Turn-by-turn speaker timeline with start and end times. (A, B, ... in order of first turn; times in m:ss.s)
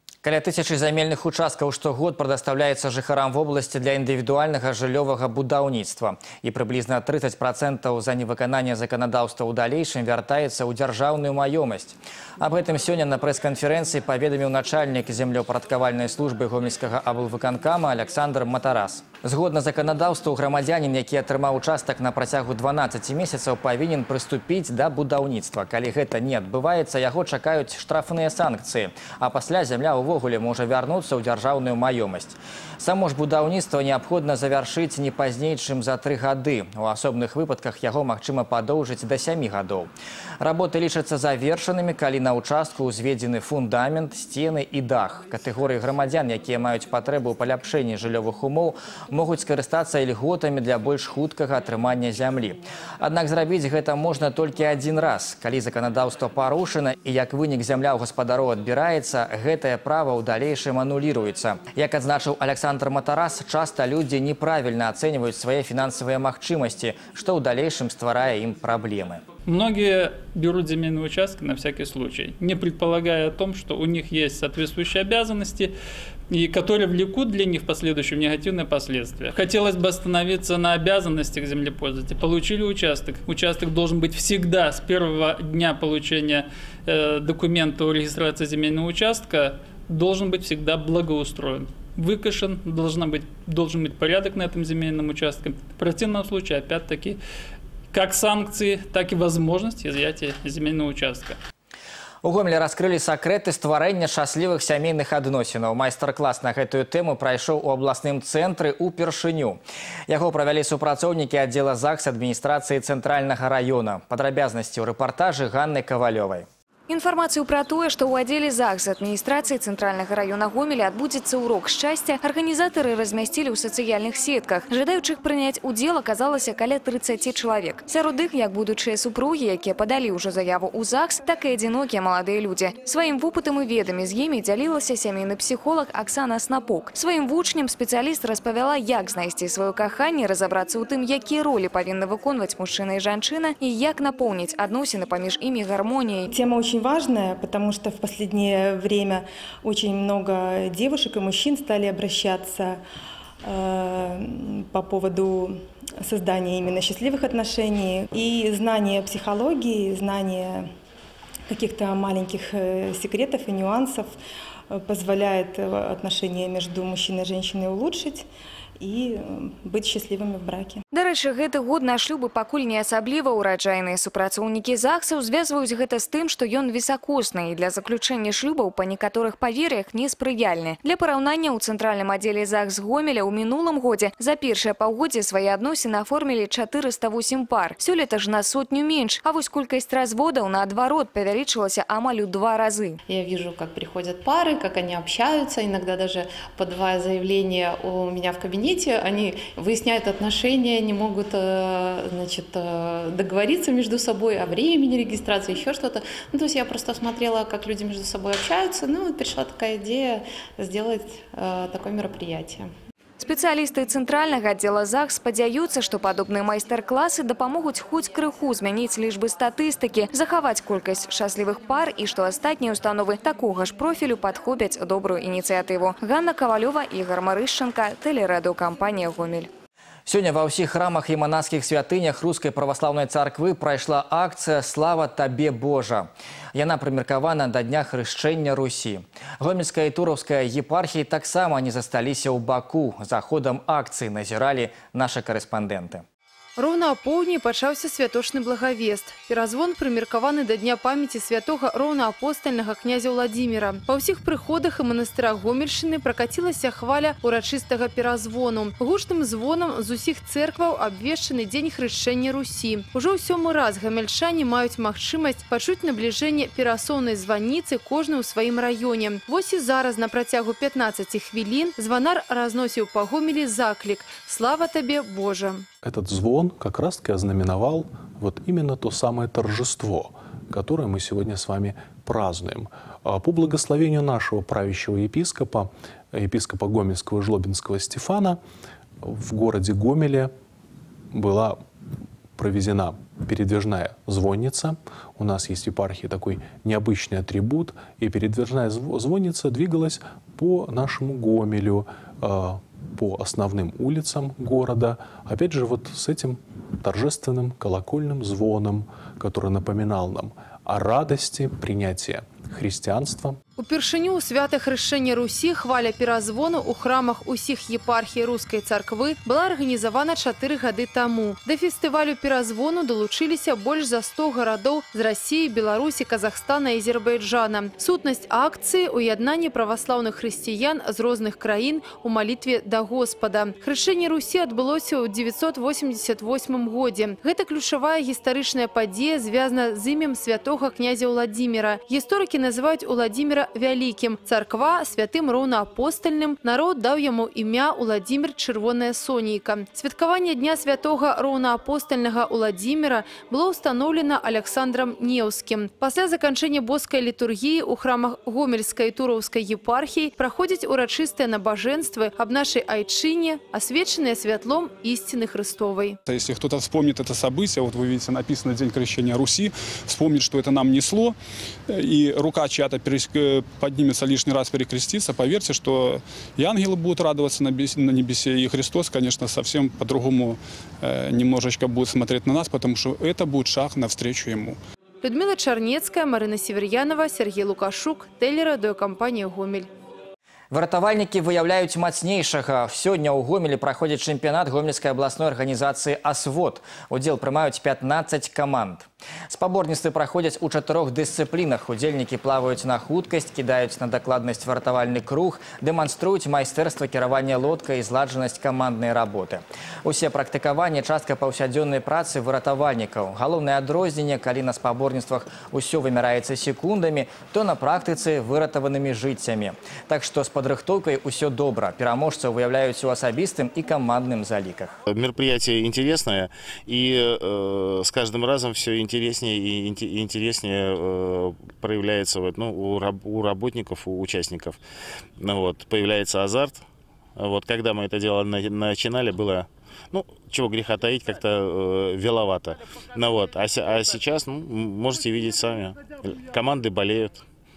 0:00.2-0:39.9 A
0:40.4-1:09.2 A
1:09.5-1:15.7 B
1:16.3-1:37.2 B
1:37.9-1:41.4 B
1:42.2-1:49.6 A
1:50.1-1:56.5 A
1:56.9-2:26.3 C
2:26.3-2:32.8 D
2:33.4-2:40.7 D
2:41.5-2:44.2 D
2:44.7-2:48.3 D
2:48.8-2:50.8 D
2:50.9-3:13.0 C
3:13.0-3:32.7 E
3:33.2-3:49.5 C
3:50.1-4:06.0 A
4:06.6-4:35.6 F
4:35.8-4:48.4 G
4:49.0-4:50.3 G
4:51.1-4:51.6 G
4:52.4-5:13.4 G
5:13.6-6:06.0 F
6:06.1-6:11.2 H
6:11.7-6:24.6 H
6:25.0-6:29.7 F
6:30.5-7:04.8 A
7:04.9-7:14.6 I
7:15.2-7:16.6 I
7:17.2-7:27.2 I